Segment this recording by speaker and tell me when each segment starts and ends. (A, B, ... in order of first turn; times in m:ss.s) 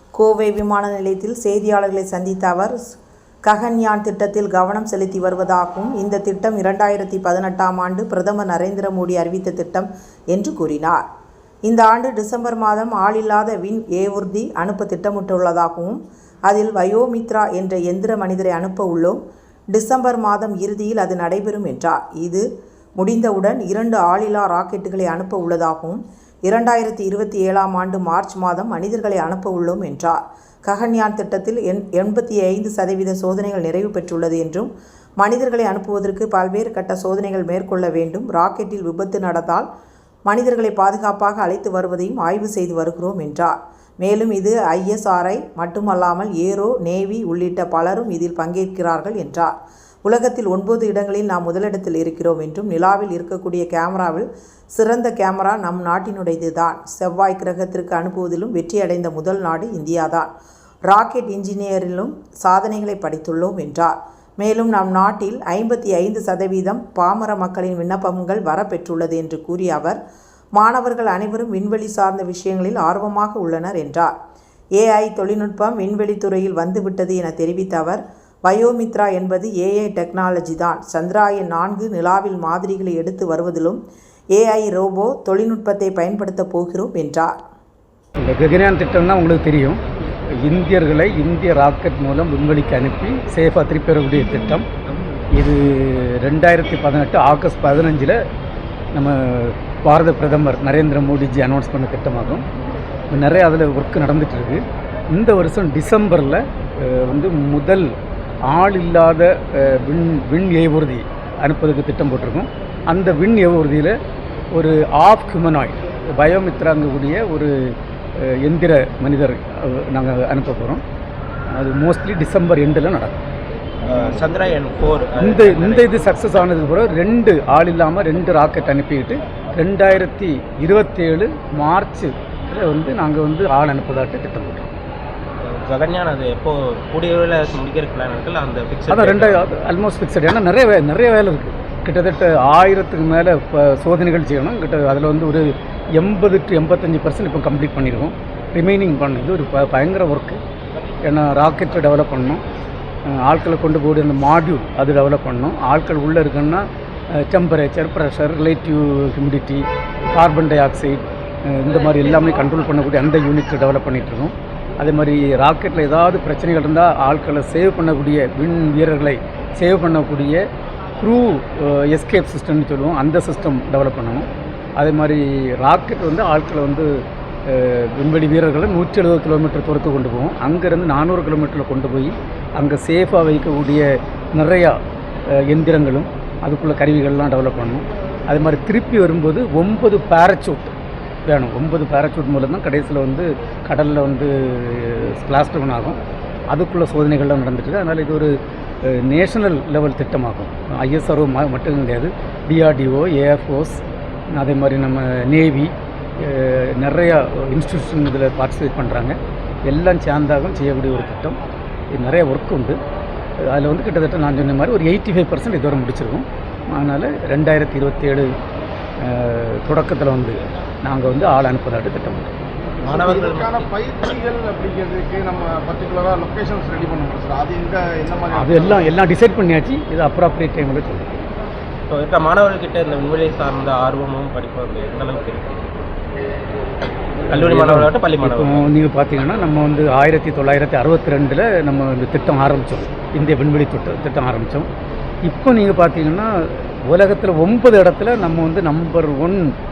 0:00.2-0:02.8 A
0:03.5-0:11.0 A
0:11.7-0:19.2 A
0:19.7-0:22.4 A
0:23.0-0:39.7 A
0:40.3-0:49.5 A
0:50.0-1:00.3 A
1:00.9-1:10.0 A
1:10.6-1:14.1 A
1:14.8-1:23.8 A
1:24.3-1:27.4 A
1:28.2-1:29.8 B
1:30.4-1:34.7 B
1:35.3-1:38.2 B
1:38.9-1:42.4 B
1:43.1-1:47.9 B
1:48.5-1:53.9 B
1:54.5-2:00.8 B
2:01.5-2:03.2 B
2:03.8-2:06.2 C
2:05.2-2:14.7 B
2:15.4-2:19.5 C
2:18.9-2:30.4 B
2:31.0-2:32.4 B
2:33.1-2:50.4 B
2:51.0-2:56.9 B
2:57.5-3:10.8 B
3:11.3-3:18.3 B
3:18.8-3:23.8 B
3:24.3-3:31.4 B
3:31.9-3:32.8 B
3:33.4-3:38.3 B
3:39.0-3:42.3 B
3:42.8-3:43.7 C
3:42.8-3:48.9 D
3:48.3-3:51.2 B
3:51.9-3:55.8 C
3:57.3-3:58.7 C
3:57.3-4:04.7 B
4:05.2-4:09.5 B